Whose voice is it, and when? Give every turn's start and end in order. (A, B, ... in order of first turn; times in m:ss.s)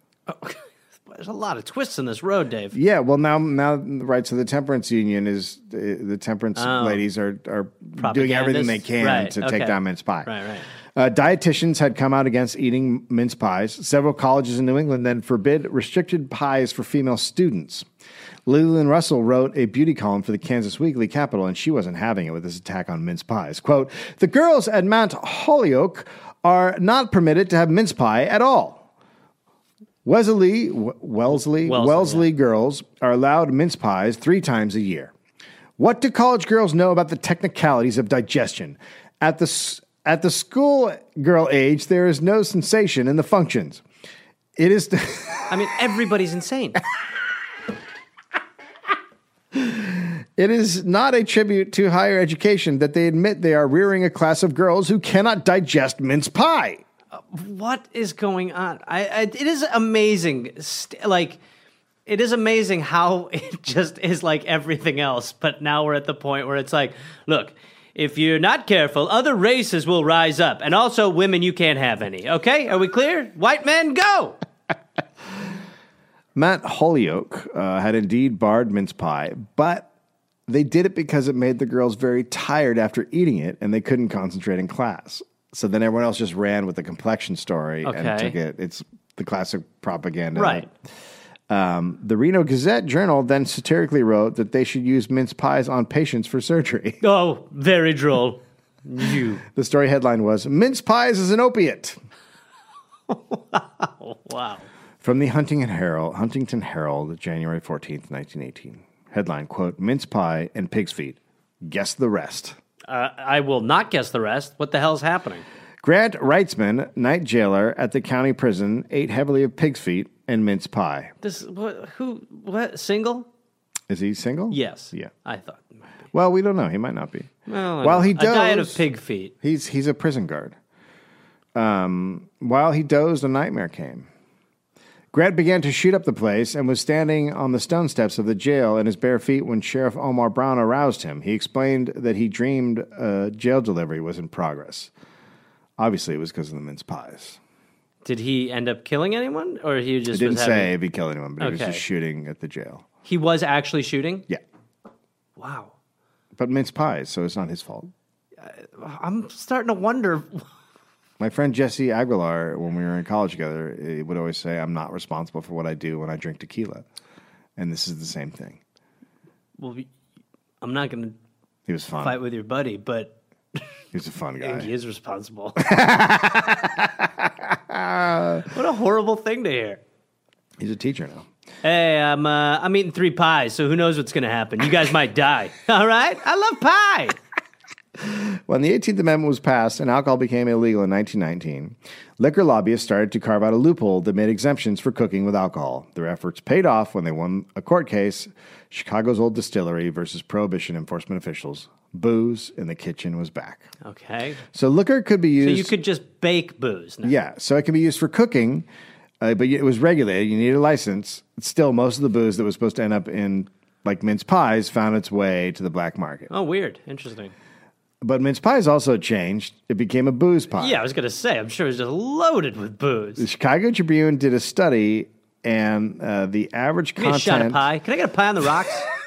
0:00.3-0:02.8 A
0:02.7-0:10.3 B
0:06.6-0:07.0 A
0:08.0-0:10.6 A
0:10.9-0:17.9 B
0:18.4-0:28.8 B
0:30.0-0:35.1 B
0:31.6-0:32.3 A
0:35.8-0:43.8 B
0:44.6-0:45.6 B
0:45.5-0:46.8 A
0:49.5-0:56.8 B
0:57.1-1:01.4 A
1:02.0-1:14.4 A
1:16.3-1:19.9 B
1:20.5-1:30.7 B
1:27.8-1:28.4 A
1:30.4-1:30.7 A
1:31.5-1:37.0 B
1:37.0-1:39.4 A
1:39.4-1:42.0 B
1:43.1-1:44.6 A
1:45.0-1:52.6 B
1:52.9-1:55.4 A
1:55.8-2:01.1 B
2:01.2-2:03.3 A
2:03.9-2:05.1 B
2:04.5-2:05.8 A
2:06.1-2:08.8 B
2:07.5-2:09.3 A
2:09.4-2:10.6 B
2:11.5-2:14.1 B
2:15.1-2:24.9 B
2:25.8-2:27.4 B
2:28.0-2:30.7 A
2:30.1-2:32.8 B
2:31.4-2:31.8 A
2:33.0-2:34.3 A
2:35.4-2:35.7 A
2:36.4-2:37.9 B
2:38.4-2:40.4 A
2:41.2-2:46.8 B
2:47.6-2:48.6 B
2:49.6-2:49.9 A
2:50.6-2:51.2 A
2:51.7-2:52.2 B
2:52.0-2:53.1 A
2:53.9-2:54.7 B
2:54.4-2:55.7 A
2:55.6-2:58.5 B
2:58.5-2:59.8 A
3:00.6-3:01.3 B
3:01.6-3:07.2 A
3:08.0-3:23.7 B
3:23.8-3:24.4 A
3:24.5-3:25.7 B
3:25.4-3:27.1 A
3:27.0-3:28.6 B
3:29.2-3:36.3 B
3:36.3-3:37.3 A
3:38.0-3:40.8 B
3:40.5-3:43.2 A
3:43.2-3:47.6 B
3:47.0-3:48.9 A